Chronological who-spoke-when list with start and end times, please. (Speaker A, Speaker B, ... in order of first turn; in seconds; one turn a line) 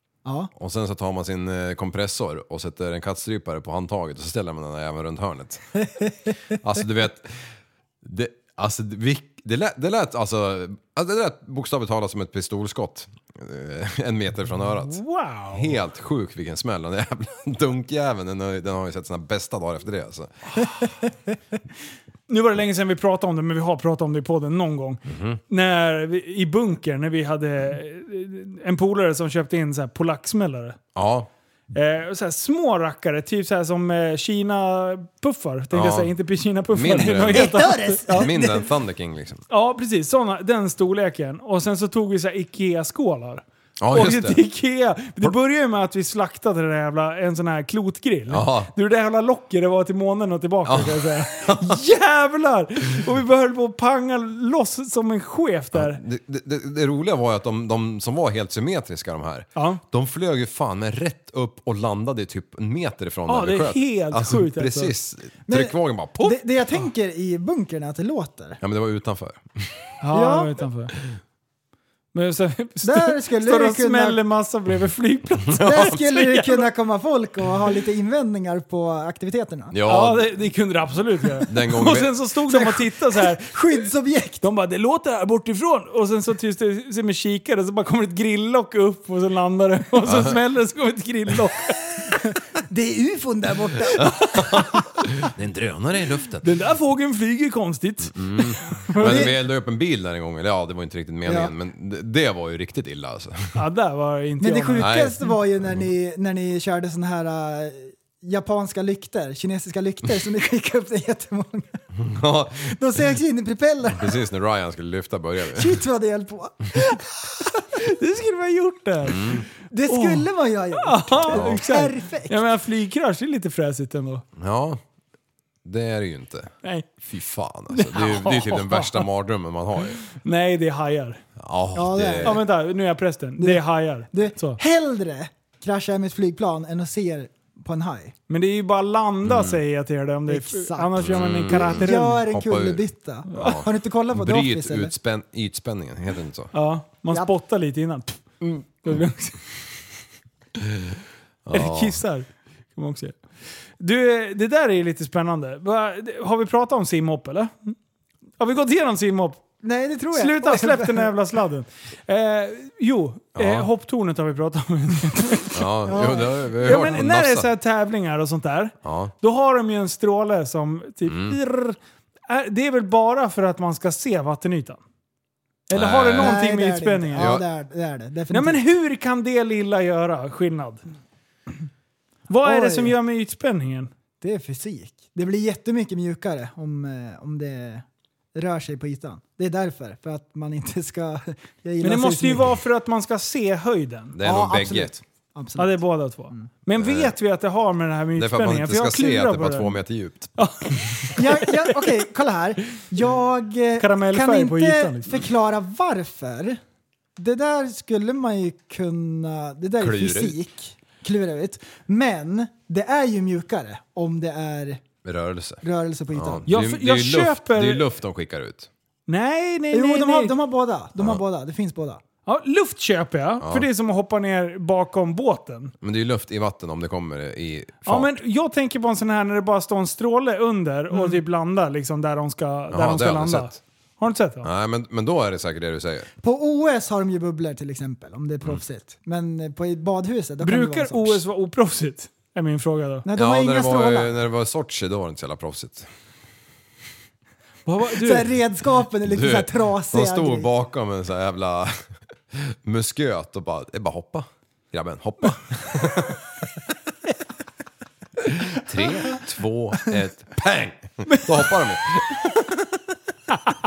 Speaker A: 0.2-0.5
Speaker B: 0.5-5.7
Speaker B: 6.6-7.4
Speaker B: 8.0-20.3
Speaker C: 14.9-15.7
Speaker C: 22.3-30.8
Speaker B: 25.1-25.4
Speaker B: 30.9-31.3
Speaker C: 31.7-38.3
Speaker B: 35.7-36.1
Speaker B: 36.7-39.4
Speaker A: 37.3-38.6
Speaker C: 39.5-56.0
Speaker B: 43.8-44.4
Speaker B: 48.3-48.7
Speaker B: 50.6-51.8
Speaker B: 55.7-66.4
Speaker C: 59.5-59.8
Speaker C: 63.3-64.9
Speaker A: 65.5-68.6
Speaker B: 68.6-69.9
Speaker C: 70.0-70.9
Speaker A: 70.1-70.5
Speaker C: 72.1-76.7
Speaker A: 72.8-74.2
Speaker B: 75.5-76.0
Speaker A: 75.6-79.7
Speaker B: 79.7-80.3
Speaker C: 79.9-83.8
Speaker B: 81.5-82.1
Speaker A: 82.5-84.4
Speaker C: 84.4-92.1
Speaker B: 90.0-90.4
Speaker A: 92.7-94.1
Speaker B: 94.1-96.5
Speaker C: 96.4-99.3
Speaker B: 98.1-103.6
Speaker A: 99.0-99.3
Speaker A: 101.2-101.5
Speaker C: 103.5-105.0
Speaker A: 104.4-111.8
Speaker B: 104.8-105.2
Speaker B: 112.0-112.8
Speaker A: 112.7-114.2
Speaker B: 113.9-115.8
Speaker A: 115.5-116.8
Speaker C: 117.6-119.3
Speaker B: 119.0-119.5
Speaker A: 119.7-122.4
Speaker C: 119.9-124.2
Speaker B: 121.3-121.7
Speaker B: 124.4-124.8
Speaker B: 125.6-130.0
Speaker C: 127.7-129.0
Speaker C: 130.2-131.2
Speaker B: 131.4-132.4
Speaker A: 131.7-132.4
Speaker C: 132.2-134.6
Speaker A: 133.4-138.1
Speaker C: 138.3-142.2
Speaker B: 139.2-139.6
Speaker A: 140.3-141.0
Speaker B: 141.0-146.5
Speaker A: 141.5-144.9
Speaker C: 143.3-143.6
Speaker C: 146.5-149.4
Speaker B: 151.4-152.0
Speaker C: 151.5-153.2
Speaker C: 153.8-157.7
Speaker C: 158.4-159.4
Speaker A: 159.6-161.1
Speaker C: 160.1-165.6
Speaker B: 163.3-163.7
Speaker B: 165.5-167.5
Speaker A: 165.9-167.0
Speaker C: 166.6-171.8
Speaker B: 168.8-169.1
Speaker B: 171.1-171.4
Speaker C: 172.3-174.8
Speaker C: 175.7-177.3
Speaker B: 175.7-176.4
Speaker A: 176.2-178.6
Speaker B: 177.2-177.4
Speaker C: 178.3-180.8
Speaker C: 182.3-183.9
Speaker A: 182.4-182.9
Speaker A: 184.2-192.5
Speaker C: 191.8-194.1
Speaker B: 194.1-194.9
Speaker A: 194.2-196.4
Speaker C: 195.6-199.8
Speaker B: 196.8-197.2
Speaker B: 198.2-200.3
Speaker C: 200.4-201.8
Speaker A: 201.2-206.6
Speaker C: 203.8-205.2
Speaker A: 207.2-214.8
Speaker B: 209.8-210.4
Speaker B: 215.0-215.6
Speaker A: 215.6-216.4
Speaker B: 216.1-218.7
Speaker C: 216.5-217.8
Speaker C: 219.1-220.3
Speaker A: 219.7-222.0
Speaker C: 222.2-225.7
Speaker B: 223.4-223.7
Speaker B: 225.8-228.1
Speaker C: 227.8-234.5
Speaker A: 230.9-231.2
Speaker B: 232.7-233.6
Speaker B: 234.4-236.1
Speaker A: 236.2-241.2
Speaker C: 240.4-243.1
Speaker A: 243.0-244.1
Speaker B: 243.1-245.9
Speaker C: 247.7-248.3
Speaker A: 247.9-250.5
Speaker B: 249.0-256.2
Speaker B: 258.3-262.3
Speaker C: 261.1-261.5